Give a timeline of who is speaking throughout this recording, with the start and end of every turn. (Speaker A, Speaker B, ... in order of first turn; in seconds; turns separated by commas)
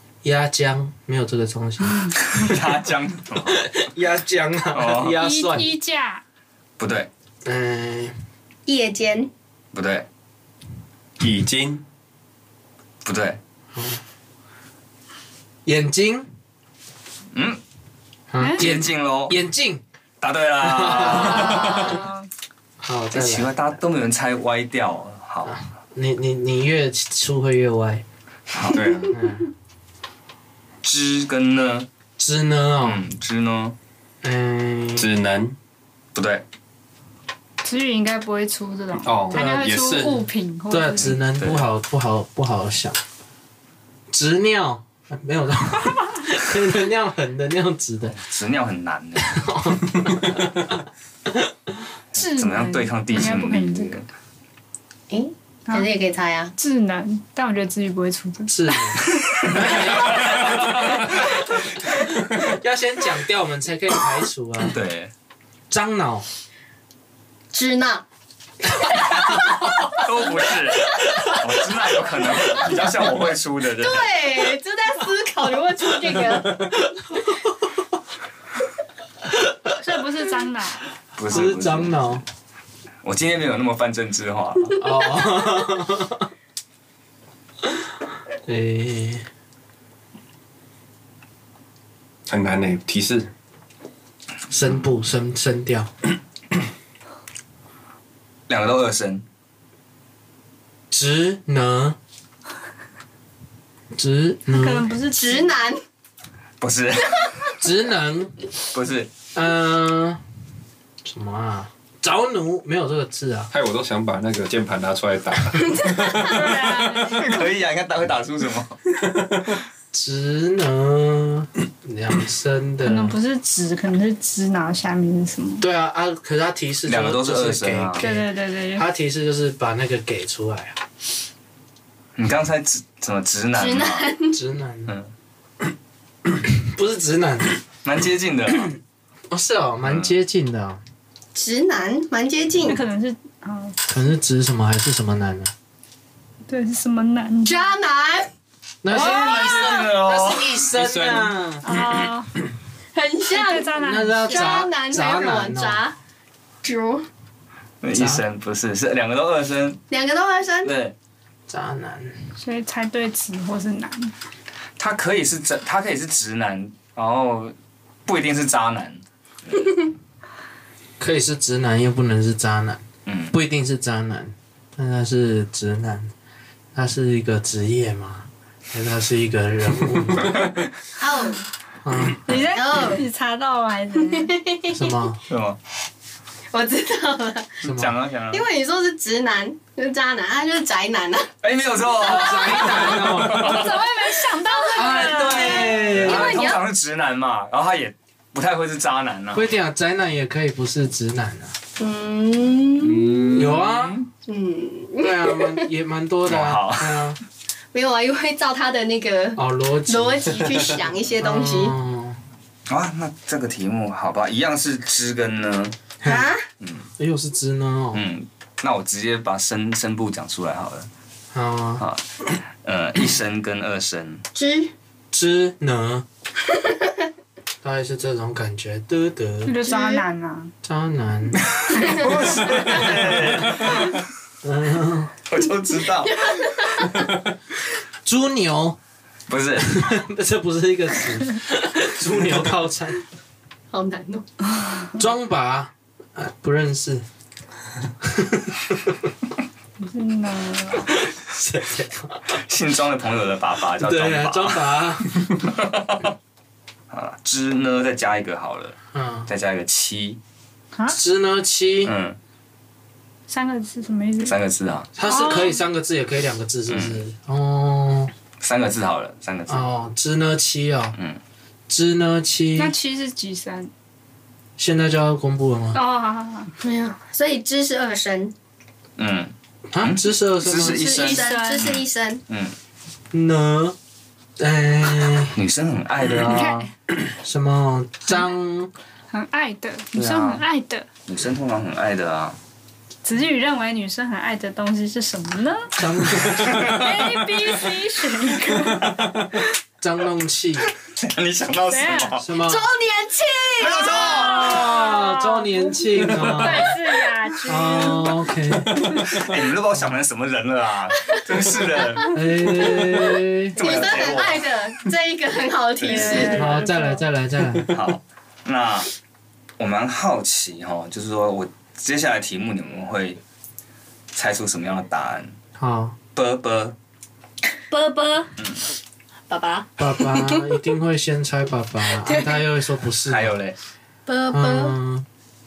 Speaker A: 0.2-2.1, Speaker B: 2.2-3.6, Speaker A: 3.6-5.8, Speaker B: 4.7-5.2, Speaker C: 5.2-6.2, Speaker B: 6.8-7.1, Speaker A: 7.4-8.1, Speaker D: 8.7-9.3, Speaker B: 9.7-10.1, Speaker E: 11.2-11.8, Speaker B: 13.0-13.4, Speaker A: 13.7-14.0, Speaker A: 15.7-16.3, Speaker B: 17.3-17.6, Speaker A: 18.3-19.8, Speaker C: 18.4-18.6, Speaker B: 18.6-19.4, Speaker B: 20.2-22.0, Speaker A: 20.6-21.9, Speaker C: 20.9-22.3, Speaker A: 22.8-23.5, Speaker B: 23.1-25.6, Speaker A: 25.4-28.0, Speaker B: 28.5-28.9, Speaker E: 28.6-29.1, Speaker A: 29.1-29.5, Speaker B: 30.8-31.9, Speaker A: 32.2-33.0, Speaker B: 32.8-33.8, Speaker A: 34.2-35.1, Speaker E: 35.0-35.5, Speaker B: 36.1-36.4, Speaker C: 37.6-41.2, Speaker E: 39.0-40.3, Speaker A: 39.3-39.6, Speaker A: 40.7-43.0, Speaker B: 41.1-41.6, Speaker A: 44.1-48.2, Speaker B: 48.1-49.4, Speaker A: 49.2-50.8, Speaker A: 51.3-51.8, Speaker B: 52.1-54.1, Speaker C: 52.1-54.0, Speaker D: 55.1-56.5, Speaker C: 56.5-61.2, Speaker A: 58.5-64.8, Speaker B: 60.0-60.6, Speaker B: 64.7-65.1, Speaker A: 65.7-66.3, Speaker D: 67.5-68.0, Speaker D: 68.8-69.7, Speaker B: 69.9-74.1, Speaker D: 72.5-72.8, Speaker D: 73.7-76.7, Speaker C: 79.8-81.5, Speaker B: 81.2-82.2, Speaker A: 81.3-82.2, Speaker B: 83.0-84.8, Speaker A: 84.8-86.2, Speaker A: 88.4-89.2, Speaker E: 92.3-93.3, Speaker A: 94.5-95.9, Speaker B: 98.5-99.2, Speaker A: 100.9-102.0, Speaker A: 103.9-104.9, Speaker C: 104.5-105.6, Speaker D: 105.1-105.8, Speaker B: 106.6-107.3, Speaker A: 107.6-108.4, Speaker B: 108.7-109.1, Speaker A: 109.3-110.2, Speaker A: 111.0-113.5, Speaker E: 113.5-116.8, Speaker D: 115.7-116.3, Speaker C: 116.2-117.4, Speaker B: 116.9-118.8, Speaker E: 119.0-119.6, Speaker A: 119.9-123.2, Speaker C: 122.8-125.6, Speaker A: 125.6-130.8, Speaker B: 126.9-128.1, Speaker C: 128.0-128.9, Speaker B: 132.2-134.1, Speaker D: 133.6-134.4, Speaker A: 134.3-134.9, Speaker A: 136.4-137.6, Speaker B: 137.8-138.7, Speaker A: 139.3-140.8, Speaker B: 139.8-140.1, Speaker D: 141.3-142.8, Speaker C: 142.6-143.8, Speaker A: 143.9-145.5, Speaker C: 146.5-147.7, Speaker D: 147.4-148.3, Speaker A: 148.8-151.6, Speaker B: 148.9-150.5, Speaker C: 148.9-149.7, Speaker E: 150.7-151.8, Speaker C: 151.6-152.3, Speaker D: 152.9-155.9, Speaker C: 153.3-154.6, Speaker A: 153.8-155.8, Speaker D: 156.6-157.1, Speaker B: 157.8-159.8, Speaker A: 157.9-158.2, Speaker D: 159.9-160.7, Speaker B: 160.6-160.9, Speaker A: 161.5-162.1, Speaker C: 162.4-164.1, Speaker B: 164.8-167.5, Speaker B: 168.1-169.0, Speaker A: 171.0-172.8, Speaker B: 173.1-173.3, Speaker A: 173.3-176.1, Speaker A: 176.7-180.5, Speaker D: 181.0-181.4, Speaker A: 181.8-182.3, Speaker C: 182.2-184.3, Speaker D: 182.3-183.0, Speaker D: 184.1-185.0, Speaker A: 184.7-185.2, Speaker B: 185.3-185.6, Speaker D: 186.5-187.6, Speaker A: 187.6-187.9, Speaker B: 187.6-188.4, Speaker D: 188.3-191.3, Speaker B: 191.4-193.8, Speaker A: 192.0-193.7, Speaker C: 192.1-196.0, Speaker A: 194.7-196.4, Speaker D: 194.9-196.6, Speaker B: 195.9-199.5, Speaker A: 199.3-201.5, Speaker D: 201.8-203.3, Speaker B: 202.8-204.1, Speaker A: 203.3-204.0, Speaker D: 204.2-205.6, Speaker A: 205.0-207.2, Speaker B: 206.2-207.1, Speaker D: 207.7-211.8, Speaker A: 209.4-210.5, Speaker A: 211.2-212.2, Speaker B: 212.7-215.8, Speaker A: 216.0-216.3, Speaker D: 216.0-216.4, Speaker B: 216.6-216.9, Speaker A: 217.0-218.0, Speaker B: 217.9-220.9, Speaker A: 221.3-221.8, Speaker B: 221.8-224.2, Speaker D: 224.3-224.7, Speaker A: 225.1-226.0, Speaker A: 227.6-229.6, Speaker C: 229.4-230.5, Speaker D: 229.6-230.0, Speaker A: 230.6-231.4, Speaker B: 231.5-234.0, Speaker C: 231.7-232.1, Speaker D: 231.8-232.1, Speaker A: 234.4-235.1, Speaker B: 235.2-236.3, Speaker D: 236.0-237.1, Speaker A: 238.0-238.8, Speaker B: 239.3-239.9, Speaker A: 239.6-243.0, Speaker D: 243.7-244.3, Speaker A: 245.0-247.0, Speaker A: 248.0-248.9, Speaker C: 249.8-250.9, Speaker A: 250.8-252.2, Speaker B: 252.3-256.1, Speaker A: 253.8-255.2, Speaker B: 256.9-260.2, Speaker A: 258.9-259.3, Speaker A: 260.9-261.9, Speaker B: 261.8-262.2, Speaker C: 263.3-264.4, Speaker B: 264.2-264.9, Speaker A: 264.9-268.1, Speaker C: 265.0-265.6, Speaker B: 266.7-267.0, Speaker B: 268.4-269.7, Speaker A: 269.5-270.9, Speaker A: 271.7-272.7, Speaker C: 272.6-273.7, Speaker A: 274.6-275.8, Speaker C: 275.7-276.5, Speaker D: 276.6-278.3, Speaker B: 279.0-282.5, Speaker A: 279.7-280.8, Speaker D: 280.5-282.2, Speaker C: 280.9-281.8, Speaker A: 283.1-283.8, Speaker A: 284.4-285.4, Speaker B: 285.4-286.7, Speaker C: 286.2-286.7, Speaker A: 287.2-288.7, Speaker C: 289.1-290.9, Speaker B: 289.9-290.4, Speaker B: 291.1-292.4, Speaker C: 293.0-295.8, Speaker A: 295.8-296.8, Speaker B: 296.4-296.9, Speaker C: 296.6-299.1, Speaker A: 299.8-300.7, Speaker B: 300.9-302.3, Speaker C: 301.7-302.2, Speaker A: 302.2-302.6, Speaker D: 302.4-304.5, Speaker B: 303.6-304.7, Speaker C: 303.8-308.2, Speaker A: 304.3-306.8, Speaker A: 307.4-308.9, Speaker B: 309.1-312.6, Speaker A: 312.1-313.6, Speaker D: 312.7-313.0, Speaker B: 313.5-314.5, Speaker D: 313.6-316.7, Speaker B: 315.8-316.4, Speaker C: 315.9-317.0, Speaker A: 316.3-317.7, Speaker B: 317.7-318.9, Speaker B: 319.6-323.2, Speaker B: 324.1-325.3, Speaker A: 325.6-325.9, Speaker B: 326.1-326.8, Speaker D: 327.7-328.3, Speaker D: 329.3-330.6, Speaker A: 329.8-333.4, Speaker D: 331.9-332.4, Speaker B: 333.1-333.5, Speaker D: 334.1-334.8, Speaker A: 334.3-335.1